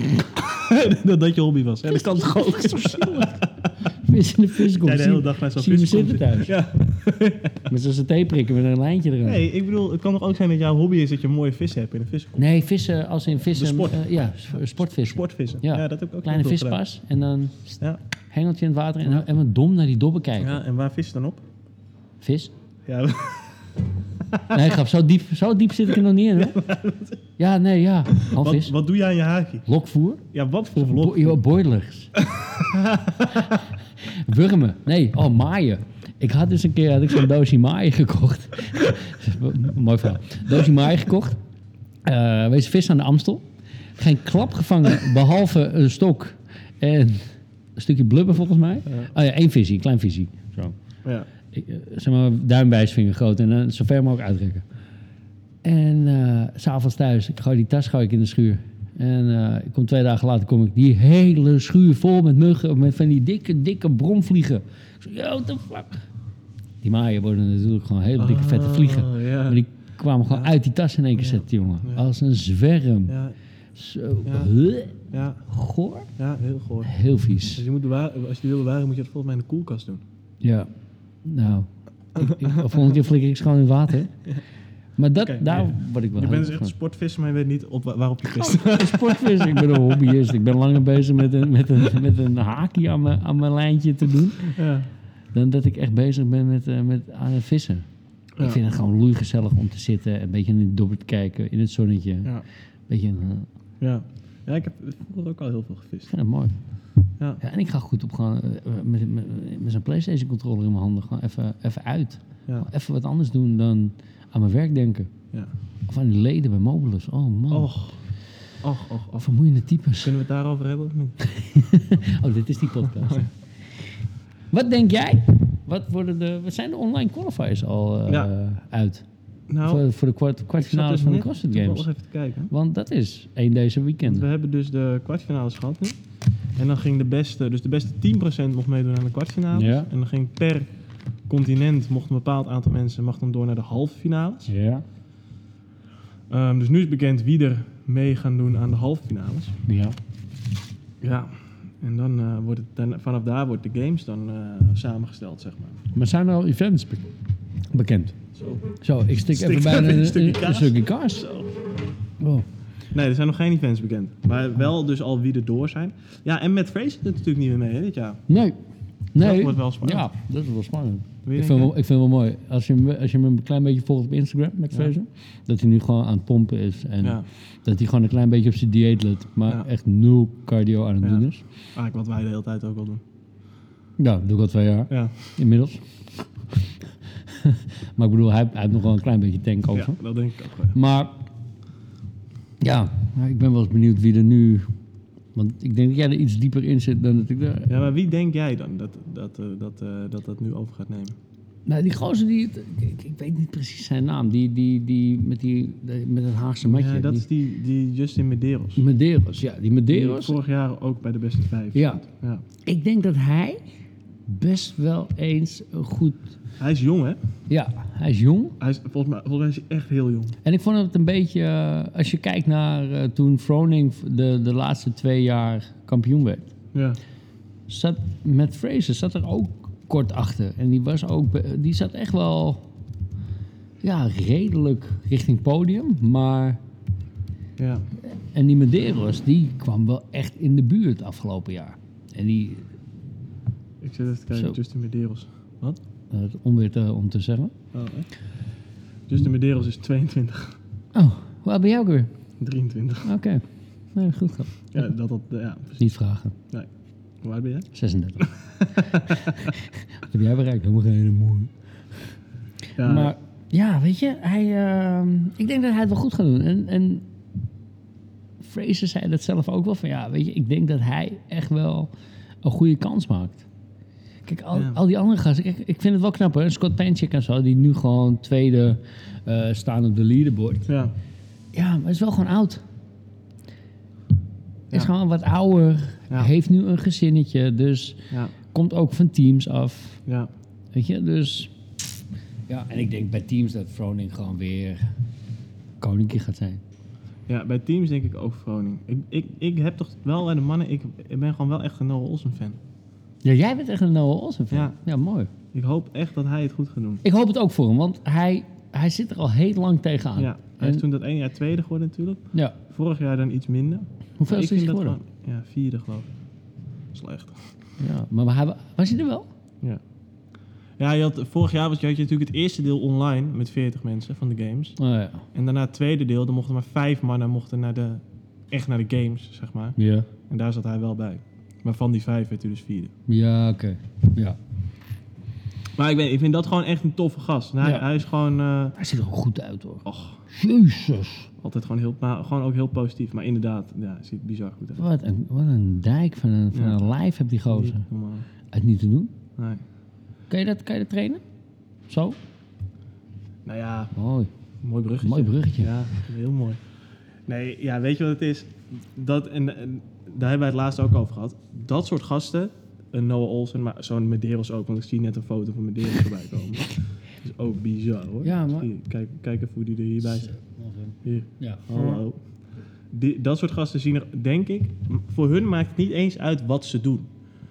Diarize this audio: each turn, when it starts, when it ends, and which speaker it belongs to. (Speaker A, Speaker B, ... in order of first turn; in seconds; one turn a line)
Speaker A: 0.3-3.7
Speaker B: 1.9-6.5
Speaker A: 4.6-7.7
Speaker B: 7.7-9.4
Speaker A: 9.2-12.4
Speaker B: 12.4-17.8
Speaker A: 13.5-16.8
Speaker B: 18.3-20.6
Speaker A: 20.4-21.4
Speaker B: 22.2-22.5
Speaker A: 22.9-23.6
Speaker B: 24.5-26.6
Speaker A: 26.4-27.2
Speaker B: 27.4-28.7
Speaker A: 28.2-29.7
Speaker B: 29.7-30.2
Speaker A: 30.3-31.4
Speaker B: 30.8-32.1
Speaker A: 32.2-33.5
Speaker B: 34.0-41.4
Speaker B: 42.0-43.5
Speaker B: 44.0-50.8
Speaker B: 51.5-54.6
Speaker B: 55.6-66.1
Speaker B: 66.8-73.2
Speaker A: 68.2-69.6
Speaker A: 70.3-70.5
Speaker A: 71.2-72.1
Speaker A: 73.1-73.4
Speaker B: 73.8-76.1
Speaker A: 74.2-74.5
Speaker A: 75.0-75.4
Speaker A: 76.2-80.0
Speaker B: 76.8-77.6
Speaker B: 80.4-80.7
Speaker B: 81.2-84.2
Speaker B: 85.0-86.7
Speaker A: 85.2-90.2
Speaker B: 88.4-94.6
Speaker A: 94.5-94.9
Speaker B: 95.3-97.9
Speaker B: 98.4-102.3
Speaker B: 102.9-103.5
Speaker A: 103.8-106.1
Speaker B: 106.1-106.5
Speaker B: 107.4-115.1
Speaker B: 115.9-117.7
Speaker A: 117.5-118.0
Speaker A: 118.6-119.3
Speaker B: 119.2-120.1
Speaker A: 120.0-121.2
Speaker B: 121.2-123.3
Speaker B: 124.5-129.1
Speaker A: 129.5-129.9
Speaker B: 129.6-131.9
Speaker A: 130.6-132.5
Speaker B: 132.5-134.3
Speaker A: 134.0-136.0
Speaker A: 136.6-140.7
Speaker B: 139.5-139.9
Speaker A: 141.3-144.5
Speaker B: 144.5-144.8
Speaker A: 146.3-149.6
Speaker B: 149.7-150.0
Speaker A: 151.0-155.8
Speaker B: 155.9-157.1
Speaker B: 157.7-158.2
Speaker A: 158.3-158.7
Speaker B: 158.8-161.3
Speaker A: 159.3-161.5
Speaker B: 162.2-162.5
Speaker A: 162.9-168.2
Speaker B: 168.3-168.6
Speaker B: 169.1-181.4
Speaker A: 169.2-170.1
Speaker A: 171.2-171.7
Speaker A: 181.0-183.0
Speaker B: 184.0-185.8
Speaker A: 184.9-185.2
Speaker B: 187.3-190.0
Speaker A: 189.7-190.8
Speaker B: 190.7-191.2
Speaker B: 192.6-194.7
Speaker B: 195.3-197.8
Speaker A: 197.7-201.2
Speaker B: 201.7-207.3
Speaker A: 206.6-208.8
Speaker B: 208.8-210.4
Speaker A: 209.9-212.4
Speaker B: 211.7-212.0
Speaker B: 212.6-213.6
Speaker B: 214.3-216.3
Speaker A: 216.6-217.2
Speaker B: 217.5-218.6
Speaker A: 218.6-220.4
Speaker B: 220.4-226.5
Speaker A: 226.7-227.0
Speaker B: 227.7-232.6
Speaker B: 233.8-236.6
Speaker A: 237.6-237.9
Speaker B: 238.0-242.7
Speaker A: 243.8-245.8
Speaker B: 246.1-247.5
Speaker A: 247.7-248.1
Speaker A: 249.1-250.6
Speaker B: 250.9-252.1
Speaker A: 252.4-253.1
Speaker B: 253.1-253.4
Speaker B: 253.9-254.6
Speaker A: 254.7-255.8
Speaker B: 255.8-256.4
Speaker A: 257.2-257.7
Speaker B: 257.7-258.3
Speaker A: 258.2-259.3
Speaker B: 259.2-261.5
Speaker A: 262.8-263.1
Speaker B: 262.8-267.1
Speaker B: 268.4-271.9
Speaker B: 272.4-273.4
Speaker B: 274.3-280.7
Speaker A: 274.5-274.8
Speaker A: 280.7-280.9
Speaker B: 281.5-282.6
Speaker B: 284.7-290.0
Speaker B: 290.7-291.5
Speaker B: 292.5-294.9
Speaker B: 295.8-296.6
Speaker A: 297.3-302.6
Speaker B: 303.2-305.3
Speaker A: 305.5-307.0
Speaker B: 307.0-310.8
Speaker A: 310.2-316.1
Speaker B: 314.2-315.0
Speaker A: 316.9-317.6
Speaker B: 317.8-319.3
Speaker A: 320.8-324.8
Speaker B: 324.8-325.2
Speaker A: 325.3-332.9
Speaker B: 329.8-330.1
Speaker B: 333.1-334.4
Speaker A: 335.8-338.8
Speaker B: 338.8-341.3
Speaker A: 339.9-340.2
Speaker A: 341.4-344.9
Speaker B: 344.8-347.9
Speaker A: 346.5-346.8
Speaker A: 347.5-348.3
Speaker B: 348.5-349.1
Speaker A: 349.4-349.6
Speaker B: 350.3-351.2
Speaker B: 351.9-352.2
Speaker A: 353.4-353.9
Speaker B: 353.9-354.3
Speaker A: 354.6-356.6
Speaker B: 355.0-355.7
Speaker A: 357.3-370.3
Speaker B: 368.2-368.7
Speaker B: 370.1-372.0
Speaker A: 371.0-372.2
Speaker A: 372.9-377.1